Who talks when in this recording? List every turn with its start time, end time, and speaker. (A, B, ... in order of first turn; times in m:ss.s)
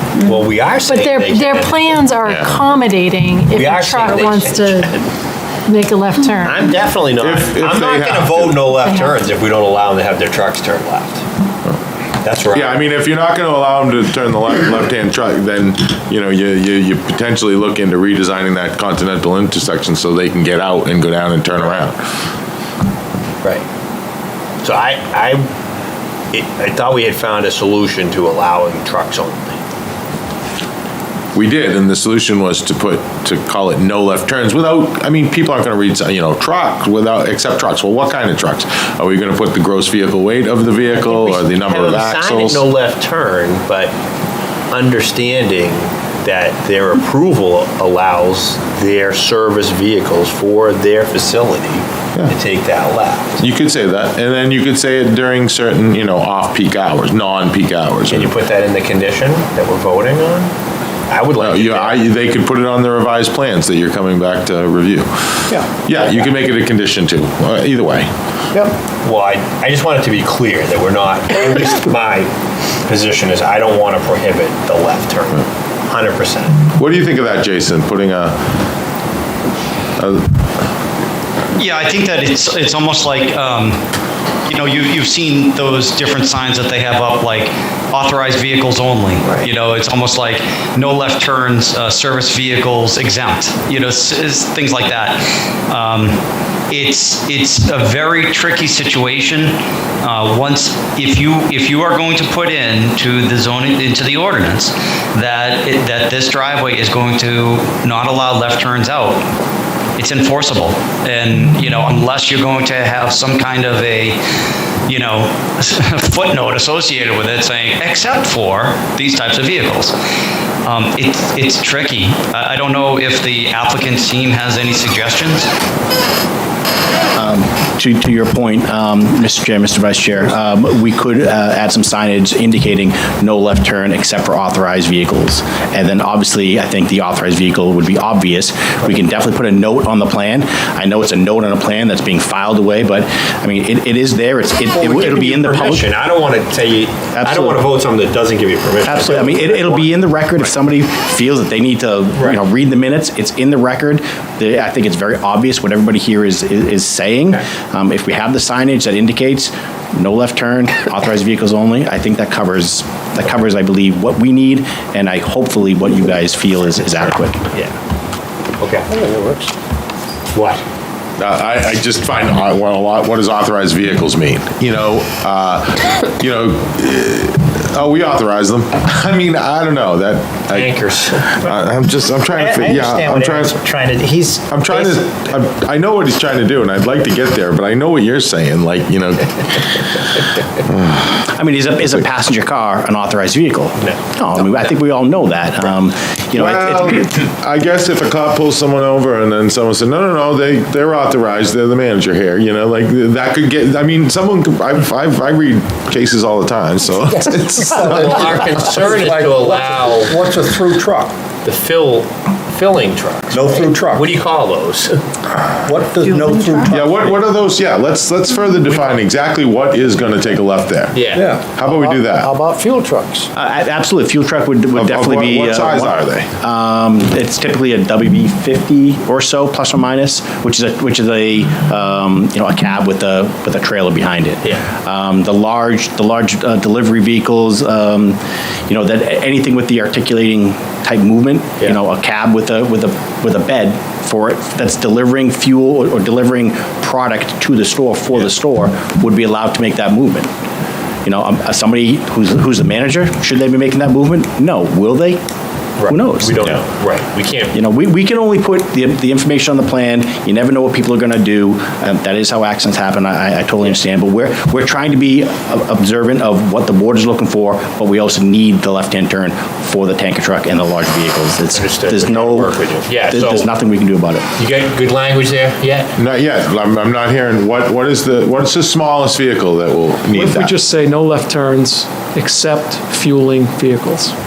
0:00.2-0:02.1 A
0:00.8-0:05.0 B
0:02.2-0:02.7 C
0:03.5-0:05.0 A
0:05.6-0:06.7 B
0:06.4-0:11.2 A
0:07.1-0:08.7 C
0:08.8-0:09.2 B
0:12.2-0:12.8 A
0:12.5-0:22.0 C
0:24.6-0:25.5 A
0:26.3-0:29.6 A
0:31.3-0:42.6 C
0:40.9-0:43.9 A
0:44.7-0:53.4 A
0:53.4-0:58.3 C
0:58.1-1:00.5 A
1:01.1-1:02.0 A
1:01.4-1:08.1 C
1:05.9-1:06.4 A
1:09.0-1:12.3 A
1:12.8-1:16.6 A
1:16.8-1:18.4 C
1:20.0-1:20.3 C
1:21.6-1:23.8 D
1:24.4-1:49.2 D
1:50.0-1:54.2 D
1:54.9-1:59.9 D
2:00.6-2:05.5 D
2:07.1-2:25.9 E
2:24.7-2:30.0 A
2:27.1-2:27.7 E
2:28.8-2:47.4 E
2:32.2-2:32.4 A
2:48.6-2:48.9 A
2:48.9-2:49.5 F
2:50.3-2:50.6 A
2:51.2-3:03.6 C
3:00.5-3:01.6 A
3:02.3-3:05.0 F
3:04.5-3:10.0 C
3:10.6-3:11.2 C
3:11.2-3:17.1 E
3:16.3-3:27.8 C
3:27.1-3:31.1 F
3:27.8-3:30.2 A
3:31.4-3:35.0 A
3:33.3-3:34.1 F
3:35.6-3:37.2 F
3:36.7-3:42.3 C
3:38.7-3:38.9 A
3:40.9-3:41.4 A
3:41.1-3:43.3 F
3:43.3-4:10.3 E
3:44.7-3:46.3 C
4:11.0-4:15.2 E
4:15.8-4:17.6 A
4:15.8-4:16.6 E
4:17.5-4:34.2 E
4:31.5-4:33.5 A
4:34.4-4:35.9 A
4:36.0-4:40.5 C
4:40.1-4:44.1 G